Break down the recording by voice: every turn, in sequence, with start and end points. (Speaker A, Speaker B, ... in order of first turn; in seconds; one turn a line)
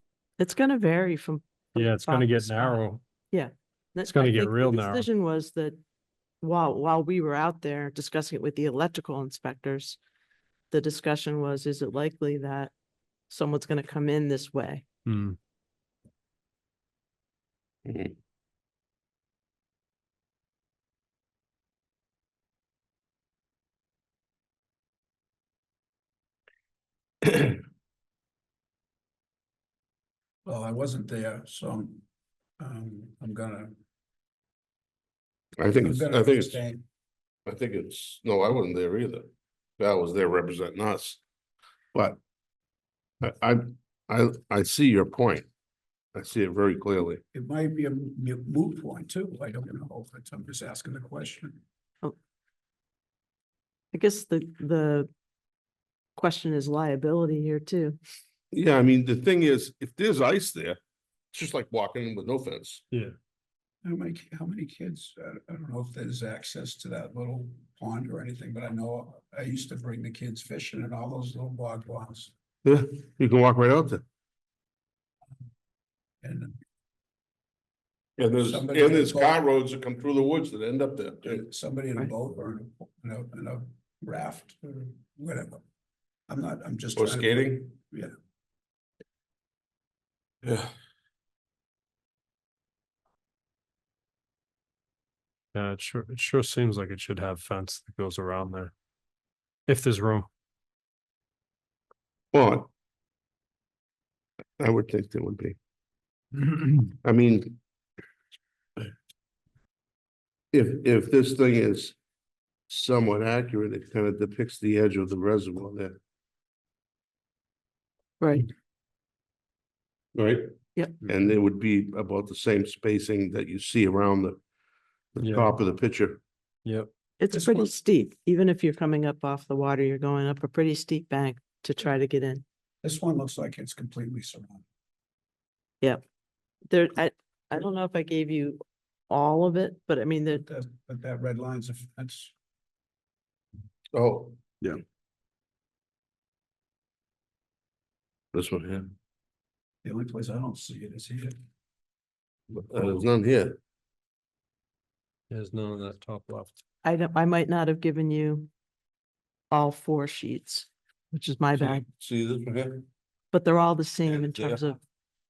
Speaker A: 0.4-5.8
Speaker B: 1.7-3.0
Speaker B: 4.0-5.0
Speaker A: 6.4-10.0
Speaker A: 10.7-12.7
Speaker A: 13.3-14.8
Speaker B: 15.1-15.4
Speaker C: 17.9-18.1
Speaker C: 27.2-27.6
Speaker D: 30.4-32.0
Speaker D: 32.6-33.7
Speaker C: 35.6-36.6
Speaker D: 35.8-36.8
Speaker C: 37.5-41.2
Speaker C: 41.9-42.2
Speaker C: 43.2-45.5
Speaker C: 46.1-47.2
Speaker D: 47.3-51.6
Speaker A: 53.9-55.1
Speaker A: 56.1-58.0
Speaker C: 58.5-60.8
Speaker C: 61.3-62.8
Speaker D: 63.8-72.3
Speaker C: 72.6-74.0
Speaker D: 76.2-76.5
Speaker C: 78.2-81.4
Speaker D: 78.4-79.3
Speaker D: 81.2-85.6
Speaker D: 86.3-88.1
Speaker C: 87.0-87.7
Speaker C: 90.4-90.7
Speaker B: 95.5-98.7
Speaker B: 99.7-100.3
Speaker C: 102.3-102.7
Speaker C: 104.6-105.6
Speaker C: 107.0-107.6
Speaker C: 110.5-112.0
Speaker C: 112.7-116.0
Speaker A: 118.2-118.5
Speaker C: 120.1-120.5
Speaker C: 121.0-124.4
Speaker C: 125.1-126.2
Speaker B: 125.2-125.5
Speaker B: 126.6-126.9
Speaker A: 127.2-132.4
Speaker D: 127.3-127.7
Speaker D: 132.8-134.6
Speaker A: 136.7-140.4
Speaker D: 140.4-142.3
Speaker C: 143.9-144.7
Speaker C: 148.3-148.9
Speaker D: 149.8-151.3
Speaker C: 152.5-153.6
Speaker B: 155.3-156.6
Speaker A: 156.8-158.5
Speaker A: 159.5-161.9
Speaker C: 161.6-162.9
Speaker A: 163.3-164.8
Speaker C: 164.1-164.6